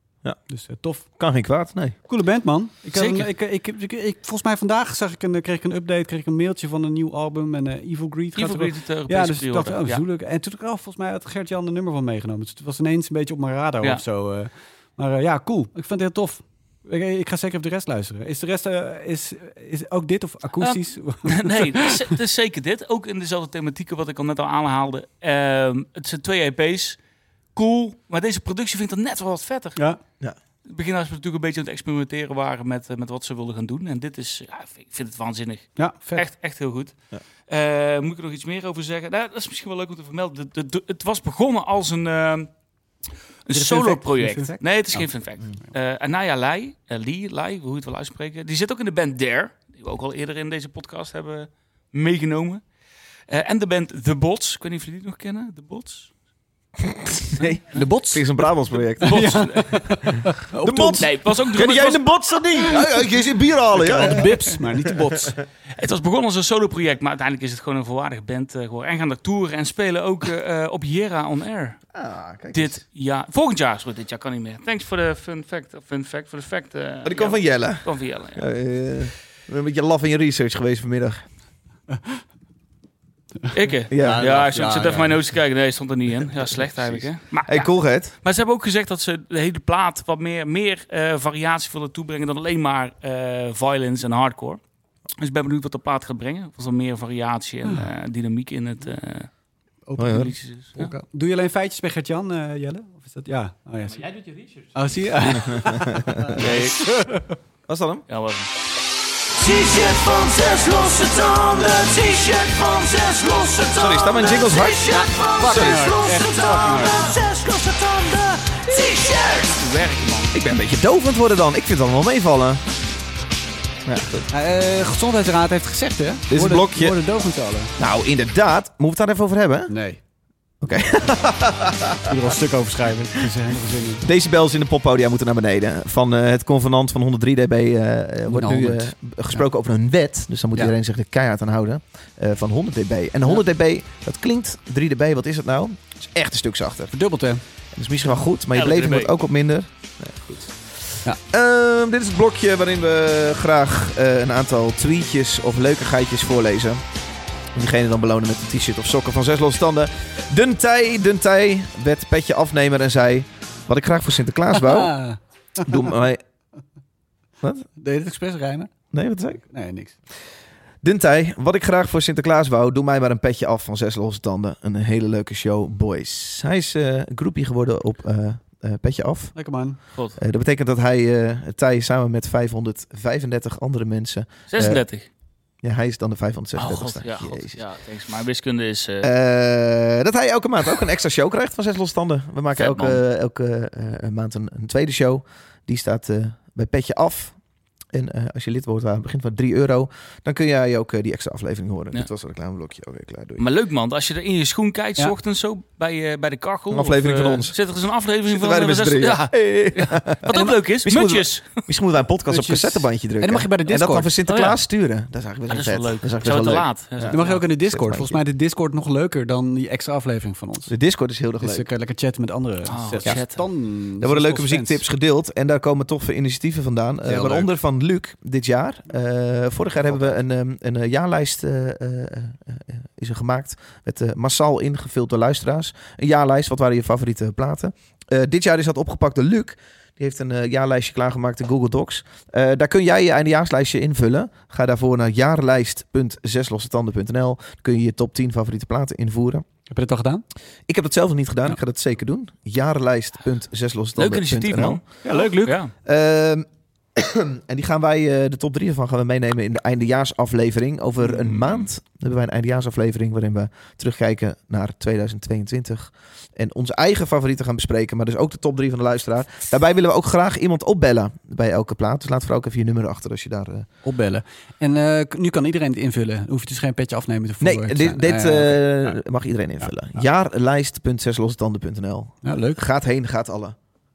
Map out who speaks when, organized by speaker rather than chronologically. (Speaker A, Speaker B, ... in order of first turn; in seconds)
Speaker A: 0.5-1.1, 2.0-22.1, 35.8-36.3, 43.5-45.0, 57.7-58.4, 59.0-61.1, 63.7-65.3, 81.9-82.2, 83.5-85.3, 99.8-107.3, 115.4-117.1, 124.3-127.7, 129.7-130.0, 132.0-134.1, 138.3-139.4, 146.9-147.4, 164.5-165.7, 167.8-168.7, 169.4-170.0, 179.3-179.8, 212.3-214.1, 217.1-220.7, 221.4-224.8, 227.0-227.5, 249.7-250.2, 255.0-255.6, 273.8-279.0, 279.6-280.0, 282.2-282.6
Speaker B: 1.2-1.9, 56.9-59.4, 60.6-64.3, 71.9-72.8, 77.0-81.2, 83.9-84.2, 86.8-88.1, 100.0-100.3, 105.5-106.5, 107.7-108.0, 113.8-115.9, 120.3-122.6, 123.8-124.3, 126.3-127.0, 127.8-129.7, 130.6-132.2, 134.0-146.9, 147.7-150.5, 151.2-156.8, 157.5-164.9, 165.6-166.2, 168.9-169.4, 170.8-179.3, 180.2-184.8, 185.6-187.6, 189.0-197.4, 197.9-203.5, 206.7-207.6, 208.2-218.2, 220.7-221.7, 224.0-249.4, 250.7-254.8, 255.8-273.7, 277.4-283.6
Speaker C: 2.9-3.3, 8.3-10.0, 20.6-27.0, 27.5-29.8, 30.7-36.9, 37.5-42.5, 43.5-52.6, 53.3-56.1, 59.0-60.0, 60.9-62.1, 65.8-71.8, 72.5-78.5, 83.5-87.7, 88.2-94.6, 95.2-99.3, 100.0-100.9, 106.3-106.9, 108.1-108.5, 119.5-120.3, 148.5-149.1, 184.5-185.1, 186.6-189.1, 192.5-193.0, 203.4-211.6, 214.3-214.6, 215.5-217.5, 222.7-223.4, 254.0-255.7, 261.0-261.7
Speaker D: 109.3-119.6